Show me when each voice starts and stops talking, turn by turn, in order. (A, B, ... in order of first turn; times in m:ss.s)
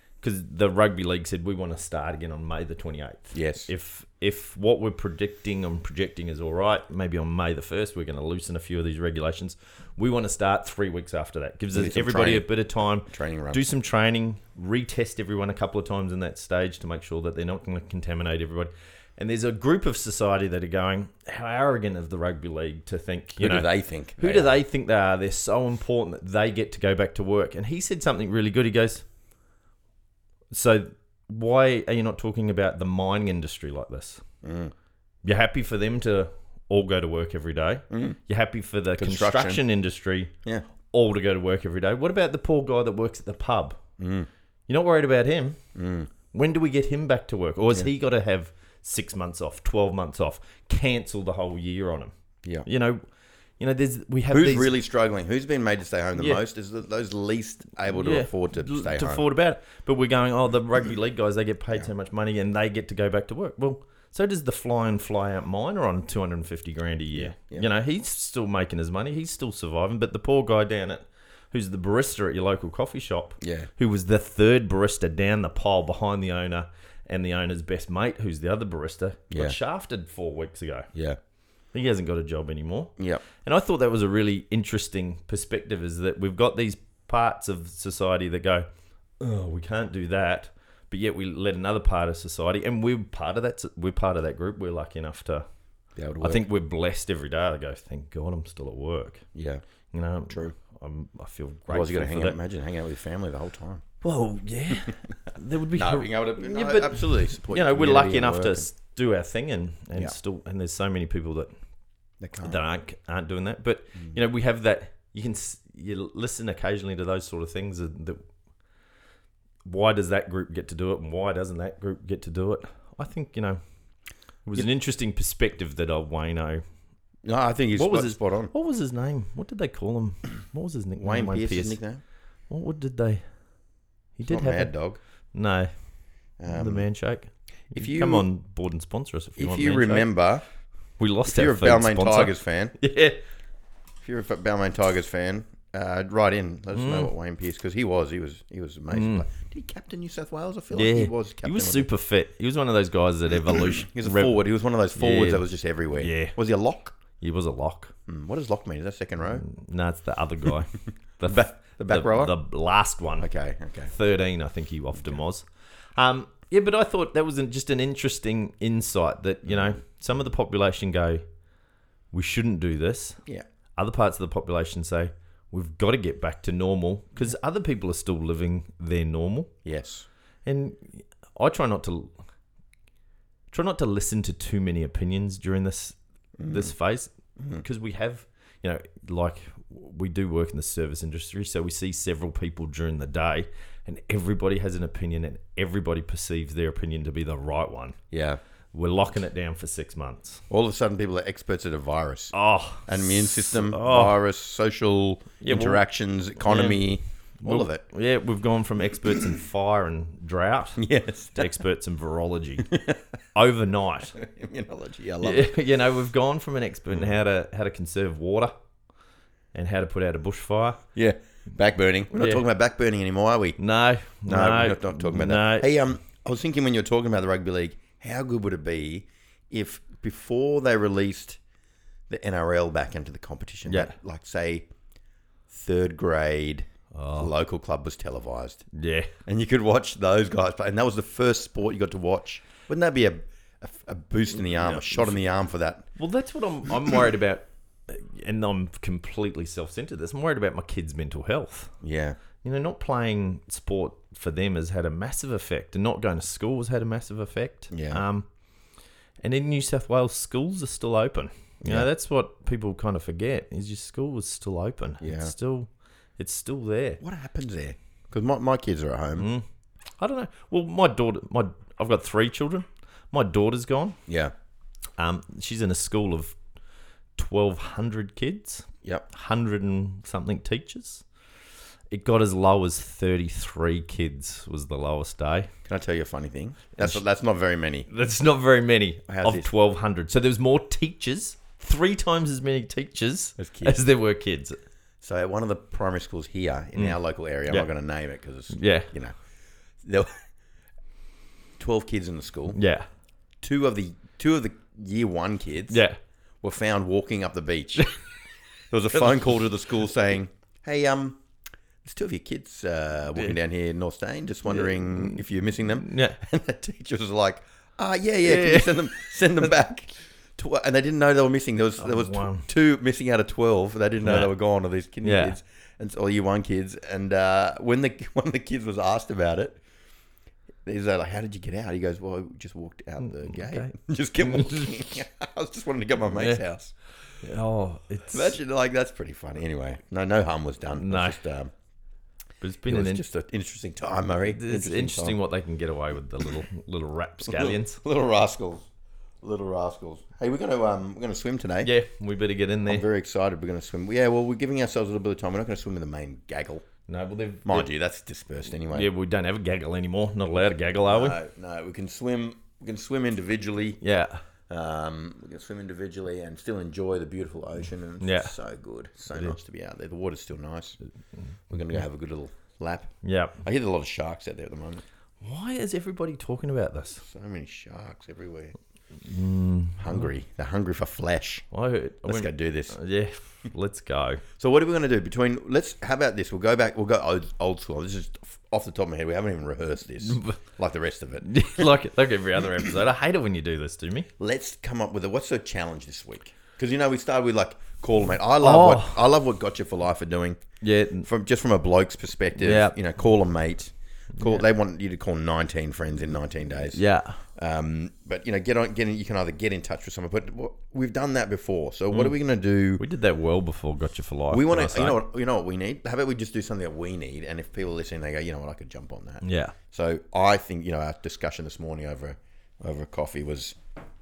0:00.2-0:29.0 A
0:03.3-0:03.7 B
0:11.7-0:12.5 B
0:13.1-0:13.6 B
0:23.4-0:24.6 B
0:30.5-0:34.2 A
0:34.4-0:34.7 B
0:35.2-0:40.3 A
0:37.9-0:38.2 B
0:39.0-0:39.6 B
0:40.9-0:43.8 A
0:44.0-0:44.3 B
0:44.7-0:45.6 A
0:45.7-0:46.1 B
0:46.3-0:52.1 A
0:52.6-0:53.0 A
0:53.6-0:54.7 A
0:54.3-0:59.2 B
0:56.2-0:56.4 A
0:57.9-1:20.9 A
1:07.1-1:07.7 B
1:13.4-1:13.7 B
1:19.3-1:19.6 B
1:20.9-1:21.2 B
1:21.7-1:28.6 A
1:23.0-1:23.2 B
1:29.2-1:35.4 A
1:36.0-1:36.4 B
1:36.2-1:39.2 A
1:39.4-1:39.6 B
1:39.9-1:42.4 A
1:41.7-1:43.8 B
1:44.0-1:51.5 A
1:45.7-1:48.7 B
1:52.2-1:52.6 B
1:52.4-1:58.2 A
1:59.6-2:03.6 A
2:04.4-2:06.6 A
2:07.2-2:08.5 B
2:07.7-2:11.8 A
2:11.0-2:12.0 B
2:12.5-2:13.2 A
2:14.2-2:14.7 A
2:14.2-2:15.0 B
2:15.3-2:15.7 A
2:16.4-2:16.9 B
2:16.5-2:20.1 A
2:17.7-2:18.3 B
2:19.4-2:20.4 B
2:21.0-2:23.2 A
2:21.2-2:22.8 B
2:24.0-2:31.9 B
2:26.7-2:27.1 A
2:28.9-2:29.2 A
2:30.7-2:34.4 A
2:33.4-2:36.9 B
2:34.9-2:35.4 A
2:36.0-2:36.4 A
2:37.2-2:37.9 A
2:38.1-2:39.4 B
2:39.3-2:43.3 A
2:41.2-2:42.4 B
2:43.2-2:43.9 B
2:43.9-2:51.2 A
2:49.5-2:49.8 B
2:52.1-2:53.2 A
2:53.8-2:59.5 A
2:59.6-3:00.1 B
3:00.4-3:02.2 A
3:03.5-3:18.0 A
3:06.4-3:06.7 B
3:18.1-3:18.4 B
3:18.7-3:20.4 A
3:20.5-3:22.3 B
3:22.3-3:24.2 A
3:22.9-3:27.8 B
3:25.4-3:25.8 A
3:26.4-3:26.8 A
3:27.4-3:30.8 A
3:29.0-3:29.4 B
3:30.8-3:31.6 B
3:31.4-3:32.7 A
3:32.7-3:33.0 B
3:33.4-3:34.1 A
3:34.1-3:35.5 B
3:35.2-3:38.5 A
3:39.5-3:40.8 A
3:40.9-3:43.6 B
3:42.1-3:42.4 A
3:43.6-3:45.7 A
3:44.3-3:51.4 B
3:52.1-3:54.7 B
3:53.7-3:53.9 A
3:55.5-3:58.6 B
3:56.9-3:57.3 A
3:58.7-3:59.1 A
3:59.2-4:05.8 B
4:04.4-4:05.2 A
4:06.0-4:11.7 A
4:11.8-4:12.2 B
4:12.4-4:18.2 A
4:17.7-4:18.0 B
4:19.2-4:27.0 A
4:21.6-4:21.9 B
4:25.0-4:25.3 B
4:27.0-4:29.3 B
4:29.2-4:29.4 A
4:30.0-4:34.0 A
4:34.1-4:34.3 B
4:35.0-4:36.4 A
4:37.2-4:41.0 A
4:41.9-4:45.5 A
4:45.7-4:47.9 B
4:47.9-4:54.6 A
4:49.1-4:49.5 B
4:53.4-4:53.8 B
4:55.0-4:59.1 B
4:58.5-4:58.9 A
4:59.8-5:00.2 B
5:01.6-5:02.6 B
5:02.6-5:02.9 A
5:03.4-5:05.8 B
5:05.7-5:06.0 A
5:06.4-5:08.0 B
5:08.7-5:11.2 B
5:11.8-5:29.6 B
5:14.5-5:15.1 A
5:15.8-5:16.2 A
5:18.2-5:19.5 A
5:21.8-5:22.4 A
5:24.0-5:24.3 A
5:25.0-5:25.4 A
5:30.6-5:36.7 B
5:33.0-5:34.9 A
5:36.1-5:36.4 A
5:37.2-5:38.4 A
5:38.1-5:41.5 B
5:40.8-5:41.2 A
5:42.4-5:43.0 A
5:42.7-5:45.2 B
5:44.3-5:47.8 A
5:47.2-5:48.7 B
5:49.2-5:51.7 B
5:51.6-5:52.9 A
5:52.7-5:56.6 B
5:56.9-5:57.7 A
5:57.4-5:58.9 B
5:58.7-6:01.2 A
6:00.8-6:03.8 B
6:03.8-6:04.2 A
6:04.5-6:10.8 B
6:08.0-6:08.3 A
6:11.5-6:12.9 B
6:13.0-6:13.4 A
6:13.4-6:14.8 B
6:15.2-6:17.0 A
6:17.0-6:18.6 B
6:19.0-6:20.1 A
6:19.8-6:21.4 B
6:21.5-6:24.2 A
6:22.0-6:22.8 B
6:24.4-6:31.7 B
6:30.0-6:30.4 A
6:31.2-6:34.1 A
6:34.2-6:40.4 B
6:38.4-6:39.0 A
6:40.6-6:41.1 A
6:41.0-6:46.8 B
6:42.4-6:42.7 A
6:44.2-6:44.4 A
6:46.7-6:47.2 A
6:47.4-6:52.8 B
6:52.8-6:55.0 A
6:54.3-7:03.6 B
6:59.2-6:59.6 A